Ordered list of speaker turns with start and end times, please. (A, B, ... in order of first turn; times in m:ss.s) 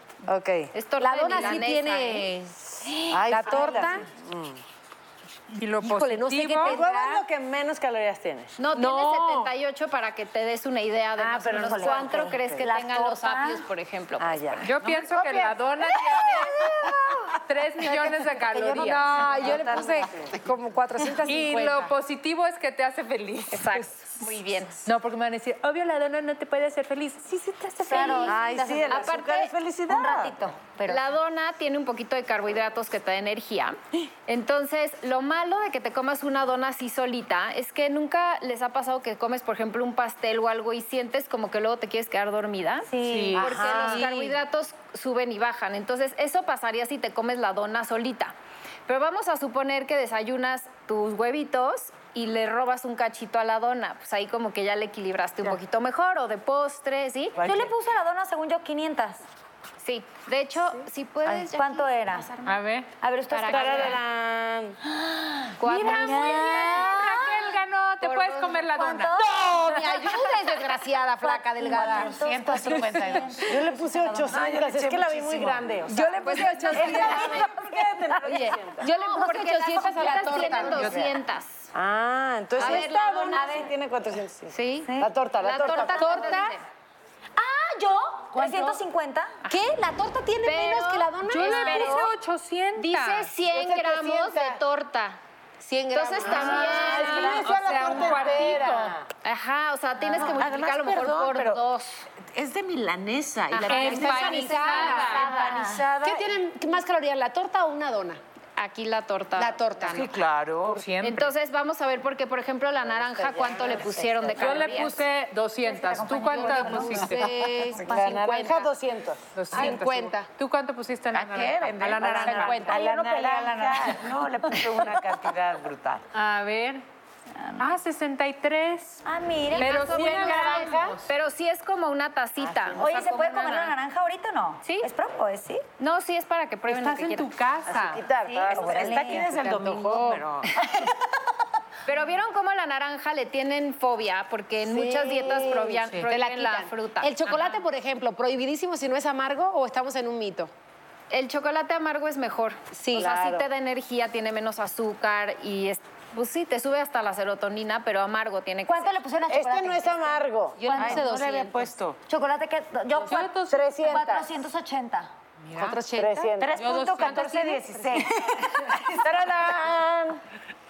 0:00.3-0:00.7 A
0:00.7-0:02.3 B
0:01.0-0:04.1 C
0:03.1-0:04.6 A
0:05.6-0:06.8 D
0:05.8-0:07.2 C
0:06.6-0:08.6 A
0:08.6-0:14.8 B
0:08.7-0:09.5 C
0:11.2-0:12.6 A
0:11.5-0:13.6 E
0:14.2-0:14.7 A
0:14.6-0:16.7 D
0:17.4-0:19.5 D
0:17.9-0:19.8 E
0:18.7-0:21.9 C
0:19.3-0:20.3 A
0:21.3-0:23.9 D
0:23.5-0:24.8 B
0:24.8-0:28.3 D
0:27.8-0:29.2 E
0:28.0-0:29.5 B
0:28.2-0:30.4 A
0:29.8-0:31.0 E
0:30.8-0:48.3 B
0:42.9-0:44.3 E
0:43.2-0:43.5 C
0:43.5-0:44.0 A
0:48.9-0:57.4 B
0:57.4-0:57.6 A
0:57.4-0:59.2 E
0:57.4-0:57.7 F
0:59.8-1:02.5 B
1:01.3-1:02.4 E
1:02.4-1:02.9 D
1:03.0-1:04.0 E
1:03.3-1:04.0 B
1:03.5-1:04.8 A
1:05.0-1:07.5 E
1:05.6-1:07.0 B
1:05.6-1:09.3 D
1:08.0-1:08.9 B
1:08.7-1:09.4 E
1:09.4-1:13.3 C
1:11.2-1:14.4 E
1:11.9-1:12.8 F
1:13.4-1:18.9 A
1:14.3-1:15.8 F
1:15.9-1:17.5 C
1:16.2-1:17.3 D
1:16.2-1:17.3 B
1:18.2-1:21.0 C
1:18.8-1:21.7 B
1:20.4-1:21.0 A
1:21.7-1:26.3 A
1:22.6-1:23.6 B
1:22.6-1:22.9 C
1:24.5-1:26.6 B
1:25.8-1:26.6 C
1:27.4-1:29.4 E
1:28.1-1:28.8 C
1:29.5-1:32.1 C
1:30.4-1:32.1 B
1:31.4-1:33.3 D
1:32.8-1:35.2 B
1:33.5-1:34.6 C
1:35.6-1:37.5 C
1:35.9-1:38.6 B
1:36.2-1:39.0 A
1:36.6-1:39.0 D
1:39.2-1:42.0 B
1:40.0-1:41.6 F
1:42.3-1:45.8 F
1:43.5-1:45.7 B
1:43.6-1:45.1 D
1:43.7-1:48.2 C
1:44.7-1:45.9 E
1:48.6-1:50.1 B
1:49.4-1:50.1 C
1:49.9-1:51.2 F
1:50.7-1:51.3 D
1:51.0-1:55.0 B
1:52.9-1:54.5 A
1:54.4-1:57.4 D
1:55.6-1:58.4 E
1:56.3-1:59.2 A
1:56.9-1:58.7 C
1:59.4-2:02.8 D
1:59.5-2:00.3 C
2:01.1-2:06.0 F
2:02.3-2:02.7 C
2:02.6-2:04.1 E
2:06.2-2:06.8 D
2:07.4-2:07.7 E
2:07.6-2:09.0 D
2:09.0-2:10.1 E
2:09.5-2:13.8 B
2:09.6-2:11.0 D
2:09.7-2:11.0 C
2:12.4-2:12.9 F
2:12.8-2:15.6 E
2:14.6-2:14.9 B
2:15.8-2:17.3 B
2:16.7-2:18.0 D
2:17.7-2:19.2 A
2:17.8-2:20.5 F
2:18.4-2:19.4 E
2:19.3-2:20.2 D
2:20.6-2:20.9 E
2:21.9-2:27.4 B
2:24.7-2:30.5 C
2:31.1-2:39.0 B
2:32.7-2:33.1 C
2:32.9-2:33.5 A
2:38.7-2:45.1 E
2:39.3-2:40.6 A
2:40.6-2:41.6 C
2:40.7-2:42.0 F
2:43.0-2:43.8 D
2:43.4-2:44.3 A
2:45.5-2:47.3 C
2:46.0-2:46.6 A
2:46.4-2:48.6 F
2:46.6-2:48.8 E
2:48.7-2:50.2 A